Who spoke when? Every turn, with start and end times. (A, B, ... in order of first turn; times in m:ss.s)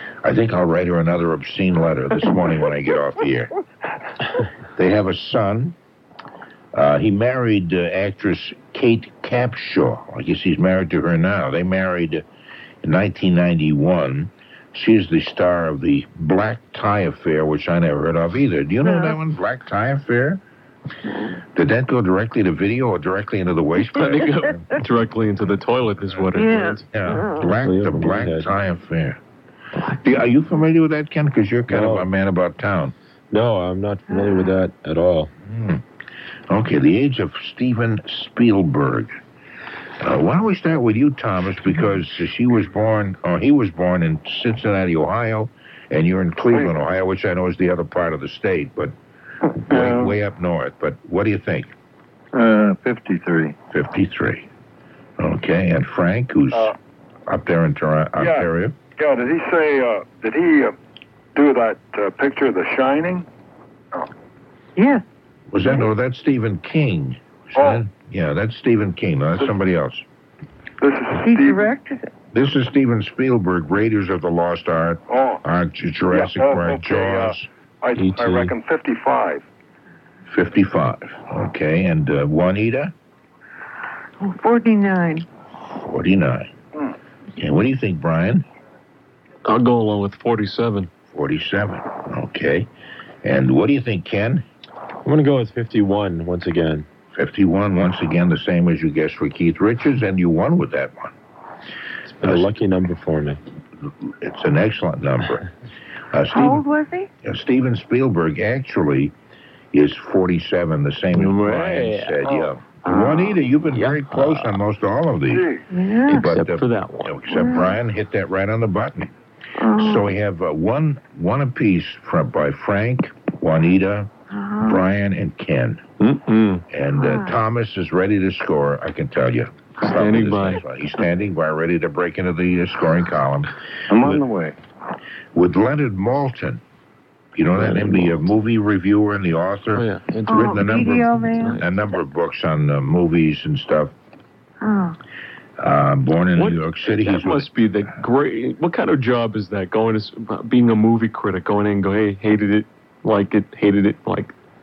0:00.2-0:03.5 A
0:04.8-0:05.8 A
0:06.7-0:12.2 A
0:12.8-0:20.4 A
0:18.8-0:19.2 B
0:21.1-0:21.4 B
0:21.6-0:24.7 A
0:23.9-0:26.9 C
0:26.3-0:27.5 B
0:26.9-0:29.2 A
0:27.6-0:28.5 D
0:30.0-0:32.9 A
0:31.7-0:32.1 D
0:33.3-0:35.3 D
0:34.1-0:34.5 B
0:35.4-0:35.8 A
0:36.5-0:39.2 A
0:40.0-0:48.9 A
0:46.5-0:46.8 E
0:49.6-0:51.7 A
0:49.7-0:50.2 F
0:52.3-0:53.6 F
0:53.7-0:54.5 A
0:55.2-0:56.7 A
0:57.3-0:58.8 A
0:58.2-1:00.7 E
1:01.4-1:03.3 E
1:04.8-1:05.0 B
1:05.5-1:10.0 A
1:07.6-1:07.8 E
1:10.8-1:11.7 E
1:11.1-1:12.1 B
1:12.3-1:17.5 A
1:15.1-1:15.4 E
1:16.1-1:19.4 E
1:17.9-1:18.5 D
1:20.3-1:22.9 A
1:24.2-1:25.3 B
1:25.7-1:26.5 A
1:27.4-1:28.4 A
1:29.4-1:30.9 C
1:31.1-1:32.7 A
1:33.2-1:34.4 A
1:35.0-1:36.9 D
1:37.2-1:41.2 A
1:42.1-1:43.4 D
1:42.2-1:42.5 A
1:44.0-1:45.4 A
1:46.1-1:46.6 A
1:46.3-1:47.1 B
1:47.2-1:49.2 A
1:49.7-1:55.5 A
1:51.1-1:52.4 C
1:52.2-1:52.5 E
1:52.9-1:54.6 C
1:55.3-1:55.6 E
1:55.7-1:56.3 B
1:56.1-1:57.3 C
1:56.1-1:59.1 A
1:57.3-1:57.8 B
1:59.6-2:00.1 B
1:59.7-2:04.1 A
2:04.3-2:04.8 B
2:04.6-2:05.8 A
2:06.0-2:06.6 C
2:06.7-2:13.5 A
2:06.9-2:07.4 B
2:09.8-2:10.6 C
2:13.9-2:14.6 F
2:15.3-2:16.6 A
2:17.4-2:23.9 A
2:17.6-2:18.2 C
2:19.7-2:21.7 C
2:20.3-2:21.6 B
2:24.6-2:25.0 B
2:25.6-2:27.6 A
2:26.4-2:34.3 C